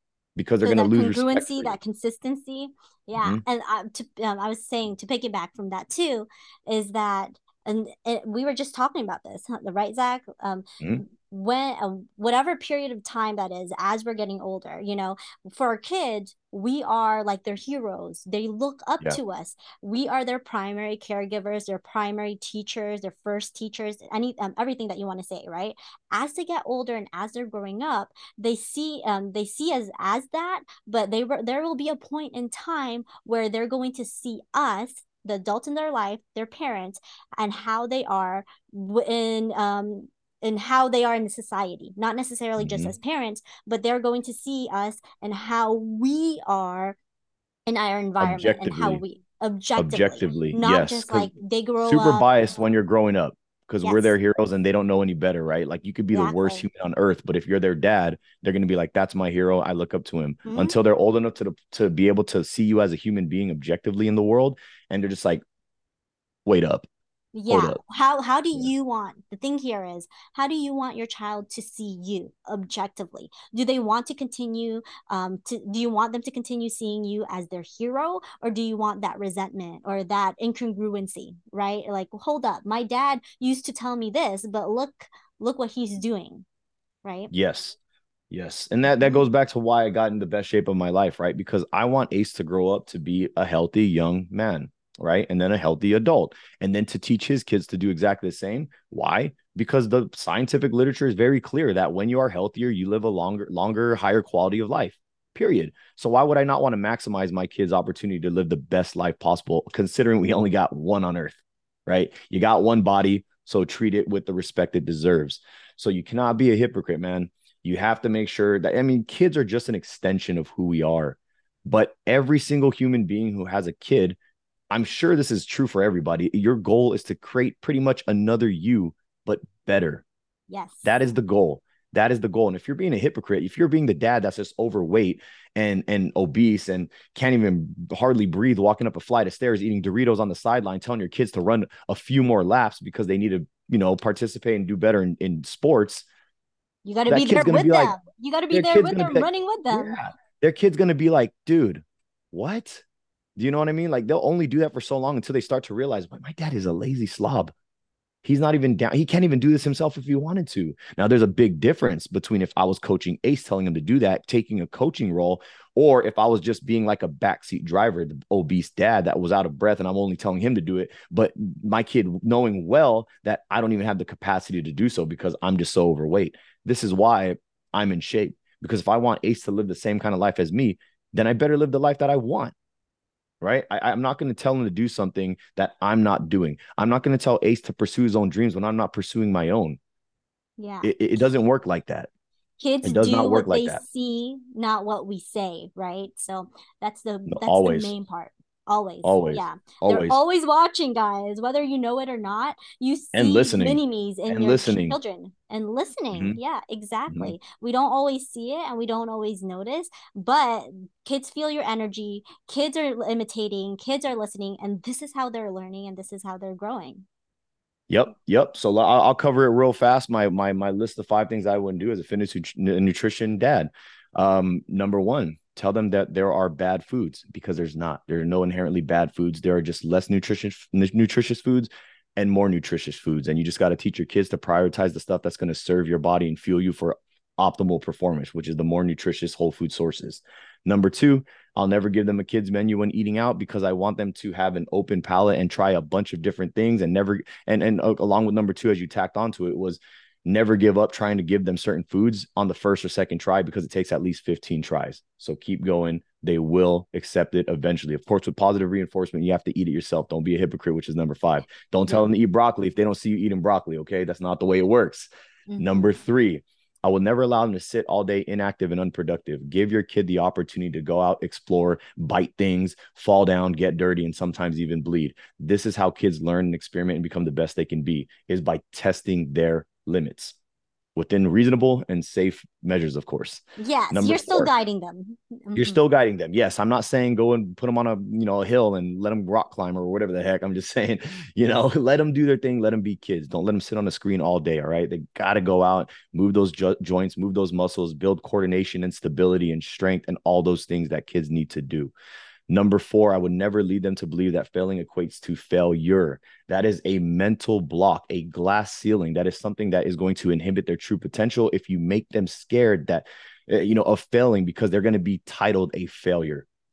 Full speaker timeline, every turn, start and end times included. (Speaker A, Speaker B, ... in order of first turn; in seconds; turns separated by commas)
Speaker A: 0.4-1.7, Speaker B: 0.6-47.0, Speaker A: 42.6-42.9, Speaker B: 47.7-52.3, Speaker A: 48.2-49.0, Speaker A: 49.8-65.4, Speaker B: 53.8-54.1, Speaker B: 56.1-56.6, Speaker B: 60.5-60.8, Speaker A: 66.5-66.9, Speaker B: 67.3-86.4, Speaker A: 67.5-67.8, Speaker B: 87.0-87.3, Speaker A: 87.3-87.7, Speaker A: 88.3-124.2, Speaker B: 89.0-89.3, Speaker A: 124.7-130.1, Speaker B: 130.5-131.0, Speaker A: 130.8-146.1, Speaker B: 146.8-150.0, Speaker A: 147.1-147.9, Speaker A: 148.5-152.8, Speaker A: 153.4-157.5, Speaker A: 158.2-182.5, Speaker A: 183.4-189.8, Speaker B: 190.6-190.9, Speaker A: 190.8-192.1, Speaker B: 192.6-217.1, Speaker A: 192.8-193.8, Speaker A: 197.3-197.9, Speaker A: 199.0-200.2, Speaker A: 203.1-205.0, Speaker A: 207.1-207.3, Speaker A: 217.9-280.4, Speaker B: 265.5-266.0, Speaker A: 280.9-284.5, Speaker B: 283.6-285.8, Speaker A: 285.6-301.9, Speaker A: 302.5-316.4